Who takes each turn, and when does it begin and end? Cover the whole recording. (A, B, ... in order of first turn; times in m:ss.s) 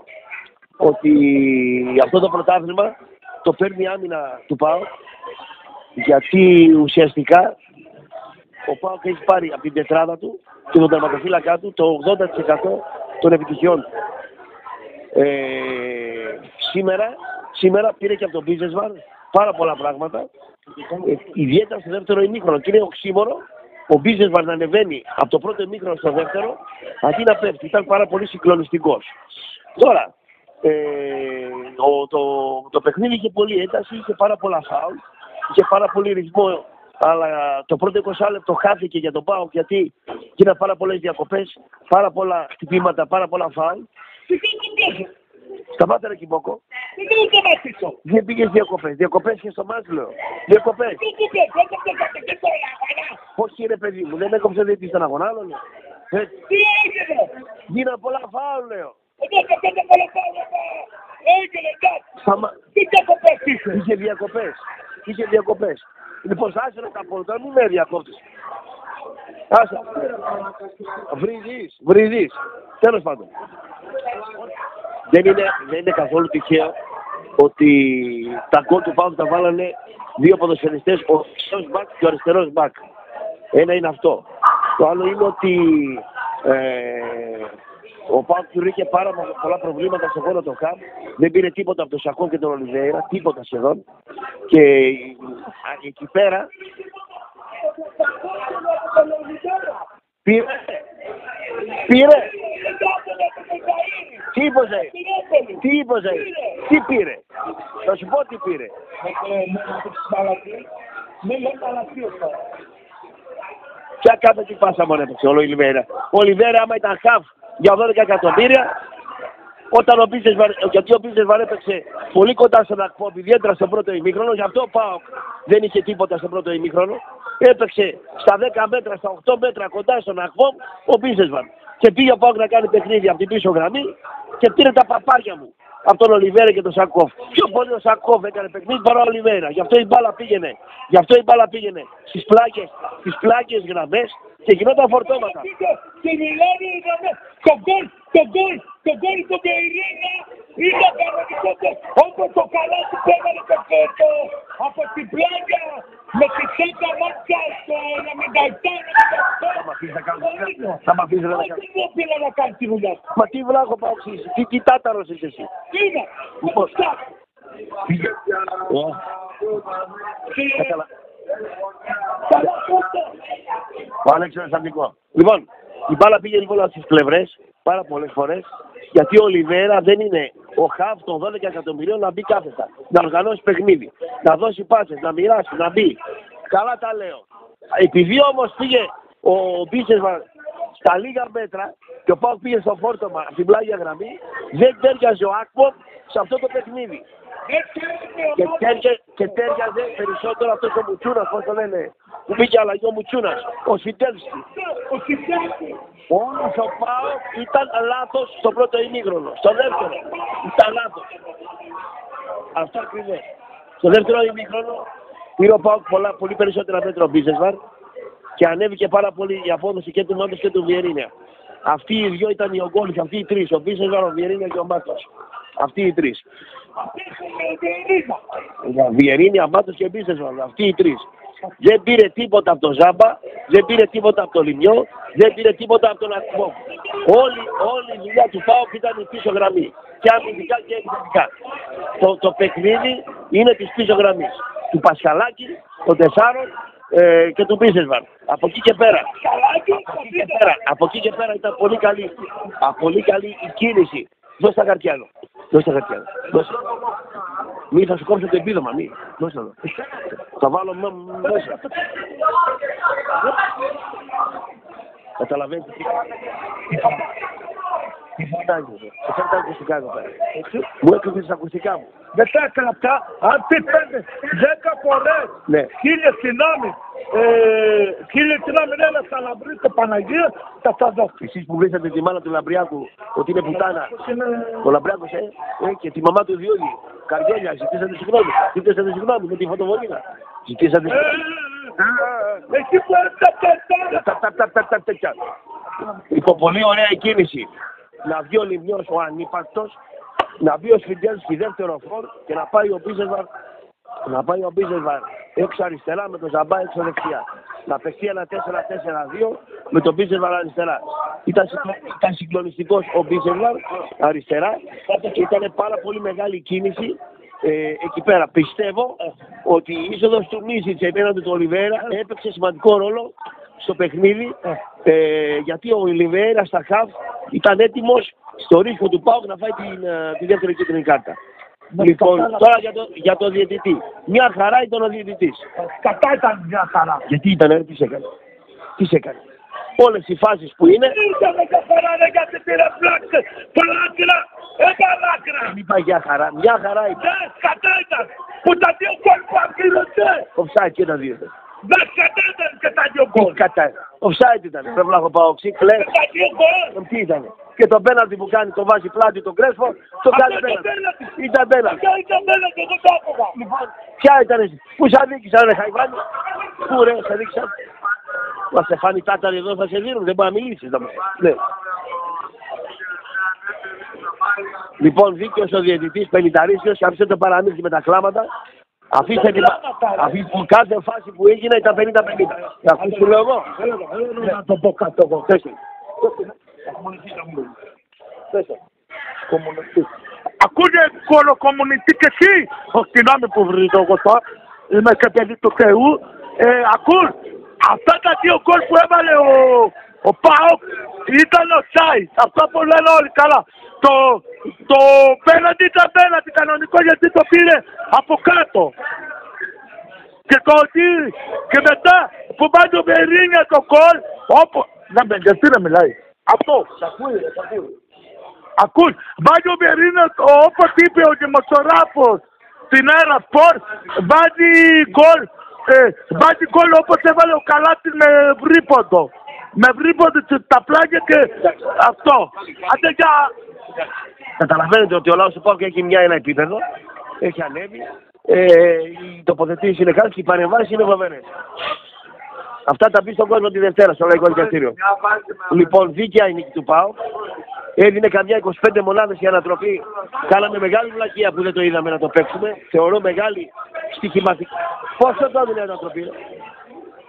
0:00.8-0:02.9 A
0:03.4-0:04.9 A
0:06.0-0:07.5 A
0:08.7-0:13.9 A
0:15.2-0:20.3 A
0:21.0-0:29.1 A
0:29.8-0:30.1 A
0:30.6-0:35.0 A
0:35.5-0:43.9 A
0:44.3-0:45.1 B
0:45.8-0:46.6 A
0:47.0-0:48.0 B
0:48.0-0:51.0 A
0:51.0-0:53.2 B
0:53.4-0:55.6 A
0:56.4-0:57.3 B
0:57.7-0:59.0 A
0:59.2-1:02.0 B
1:02.2-1:02.6 A
1:02.6-1:03.8 B
1:03.7-1:08.2 A
1:09.5-1:10.0 A
1:11.1-1:13.3 A
1:15.1-1:16.7 A
1:17.4-1:22.8 A
1:23.5-1:24.2 A
1:24.8-1:27.5 A
1:28.1-1:33.8 A
1:34.5-1:36.5 A
1:38.0-1:39.8 B
1:40.2-1:40.8 A
1:41.7-1:42.3 A
1:42.3-1:46.4 B
1:44.3-1:44.9 A
1:45.6-1:47.2 A
1:47.8-1:48.7 A
1:49.0-1:50.6 B
1:51.2-1:52.4 B
1:54.0-1:58.7 A
1:59.7-2:25.5 A
2:25.0-2:39.6 B
2:39.5-2:41.6 A
2:40.2-2:43.0 B
2:43.2-2:45.5 A
2:45.7-2:47.0 B
2:46.4-2:46.7 A
2:47.9-2:49.0 A
2:50.3-2:50.7 B
2:50.6-2:50.9 A
2:52.1-2:53.1 B
2:54.0-3:06.0 A
3:06.5-3:10.2 A
3:10.8-3:17.0 A
3:17.5-3:18.7 B
3:18.4-3:24.4 A
3:24.7-3:25.8 B
3:26.1-3:31.0 A
3:32.6-3:33.2 A
3:33.8-3:34.8 A
3:35.4-3:37.6 A
3:38.4-3:41.1 A
3:41.6-3:46.2 A
3:46.8-3:48.2 B
3:48.6-3:51.0 A
3:51.6-4:01.3 A
4:02.0-4:09.1 A
4:09.1-4:10.4 B
4:09.9-4:16.7 A
4:17.7-4:19.6 A
4:20.2-4:21.6 A
4:21.2-4:21.8 B
4:25.2-4:26.1 A
4:26.7-4:27.0 B
4:28.2-4:30.1 A
4:30.4-4:30.6 B
4:30.7-4:31.9 A
4:32.1-4:41.1 B
4:41.2-4:43.9 A
4:43.7-4:44.6 B
4:44.6-4:51.2 A
4:50.9-4:54.0 B
4:53.9-4:55.2 A
4:55.9-4:57.5 A
4:58.1-4:59.8 A
5:00.4-5:03.3 A
5:04.1-5:31.2 A
5:31.7-5:32.4 B
5:31.8-5:35.4 A
5:35.6-5:37.0 B
5:37.1-5:38.0 A
5:38.8-5:39.2 A
5:39.8-5:41.0 A
5:40.9-5:45.5 B
5:45.4-5:47.0 A
5:47.0-5:50.3 B
5:50.4-5:51.3 A
5:51.6-5:53.4 B
5:53.1-5:55.9 A
5:55.7-5:56.7 B
5:56.7-6:01.8 A
6:00.1-6:01.1 B
6:01.7-6:03.4 B
6:03.4-6:06.0 A
6:06.6-6:07.5 A
6:08.5-6:11.4 A
6:14.8-6:18.3 A
6:18.9-6:23.5 A
6:19.1-6:20.1 B
6:22.8-6:25.4 B
6:26.0-6:27.5 B
6:29.3-6:29.9 B
6:30.4-6:48.7 B
6:50.3-6:57.5 B
6:58.6-7:02.2 B
7:02.7-7:11.4 B
7:11.5-7:12.2 A
7:12.7-7:13.3 B
7:14.4-7:16.6 A
7:17.2-7:21.3 A
7:22.7-7:24.8 A
7:25.4-7:27.0 A
7:27.8-7:36.1 A